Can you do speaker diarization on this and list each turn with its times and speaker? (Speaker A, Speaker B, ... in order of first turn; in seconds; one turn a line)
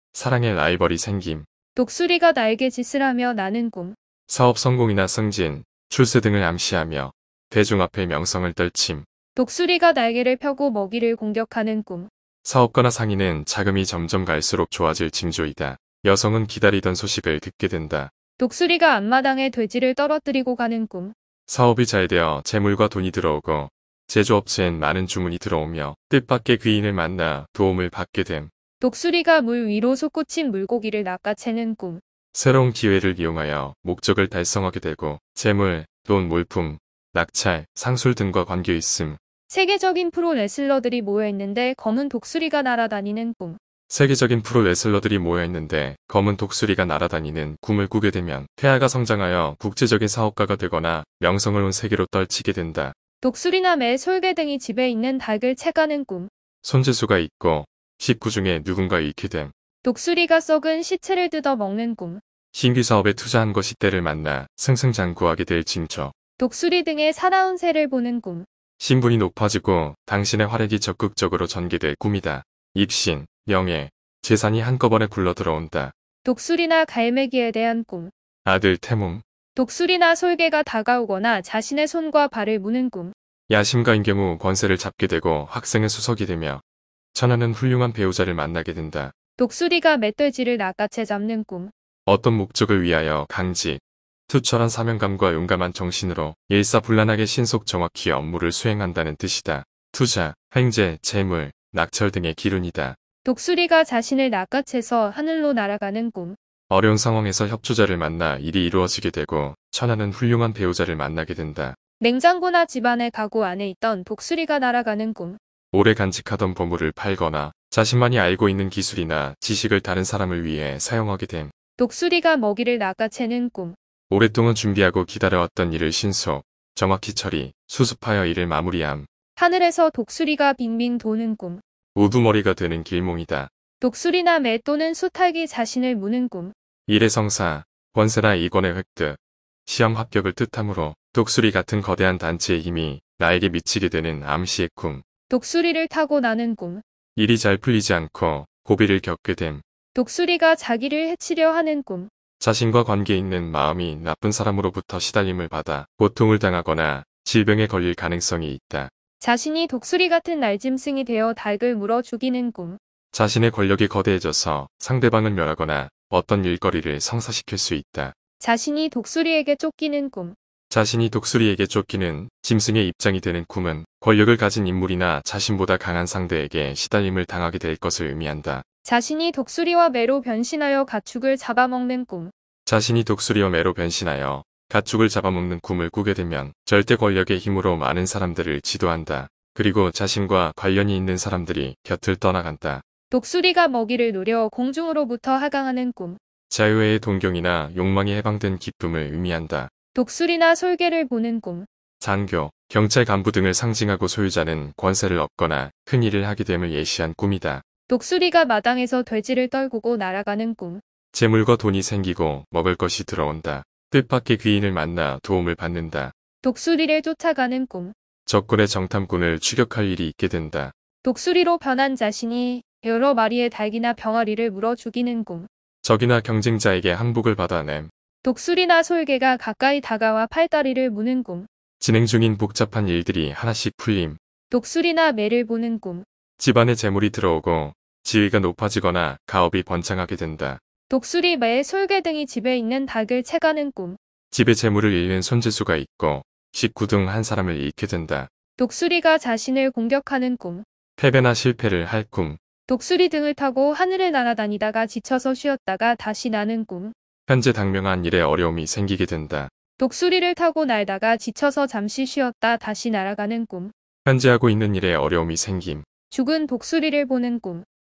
Speaker A: 0.1-1.5
Speaker B: 1.8-4.0
Speaker A: 4.3-9.1
Speaker B: 9.4-12.1
Speaker A: 12.4-18.1
Speaker B: 18.4-21.1
Speaker A: 21.5-28.5
Speaker B: 28.8-32.0
Speaker A: 32.3-39.2
Speaker B: 39.5-43.6
Speaker A: 43.9-53.0
Speaker B: 53.2-56.3
Speaker A: 56.6-59.5
Speaker B: 59.8-62.2
Speaker A: 62.5-66.1
Speaker B: 66.4-68.5
Speaker A: 68.8-75.9
Speaker B: 76.2-78.1
Speaker A: 78.5-79.2
Speaker B: 79.5-83.1
Speaker A: 83.5-86.6
Speaker A: 87.1-89.1
Speaker B: 89.4-91.7
Speaker A: 92.1-103.0
Speaker B: 103.2-106.4
Speaker A: 106.7-111.8
Speaker B: 112.0-115.4
Speaker A: 115.7-121.5
Speaker B: 121.8-123.8
Speaker A: 124.1-129.1
Speaker B: 129.4-131.6
Speaker A: 131.9-133.5
Speaker B: 133.8-136.5
Speaker A: 136.9-145.0
Speaker B: 145.3-146.8
Speaker A: 147.2-149.6
Speaker B: 149.9-152.1
Speaker A: 152.4-158.9
Speaker B: 159.2-162.8
Speaker A: 163.1-168.2
Speaker B: 168.4-170.4
Speaker A: 170.7-178.6
Speaker B: 178.9-182.3
Speaker A: 182.7-192.8
Speaker B: 193.1-196.2
Speaker A: 196.5-199.7
Speaker B: 199.9-201.7
Speaker A: 202.0-207.6
Speaker B: 207.9-210.8
Speaker A: 211.1-216.1
Speaker B: 216.4-217.9
Speaker A: 218.3-220.7
Speaker B: 221.0-225.5
Speaker A: 225.8-227.9
Speaker B: 228.2-231.5
Speaker A: 231.8-234.2
Speaker B: 234.5-236.1
Speaker A: 236.4-240.6
Speaker B: 240.9-244.0
Speaker A: 244.3-248.3
Speaker B: 248.6-250.7
Speaker A: 251.0-252.4
Speaker B: 252.7-256.9
Speaker A: 257.3-259.5
Speaker B: 259.8-263.7
Speaker A: 264.1-265.9
Speaker B: 266.1-267.7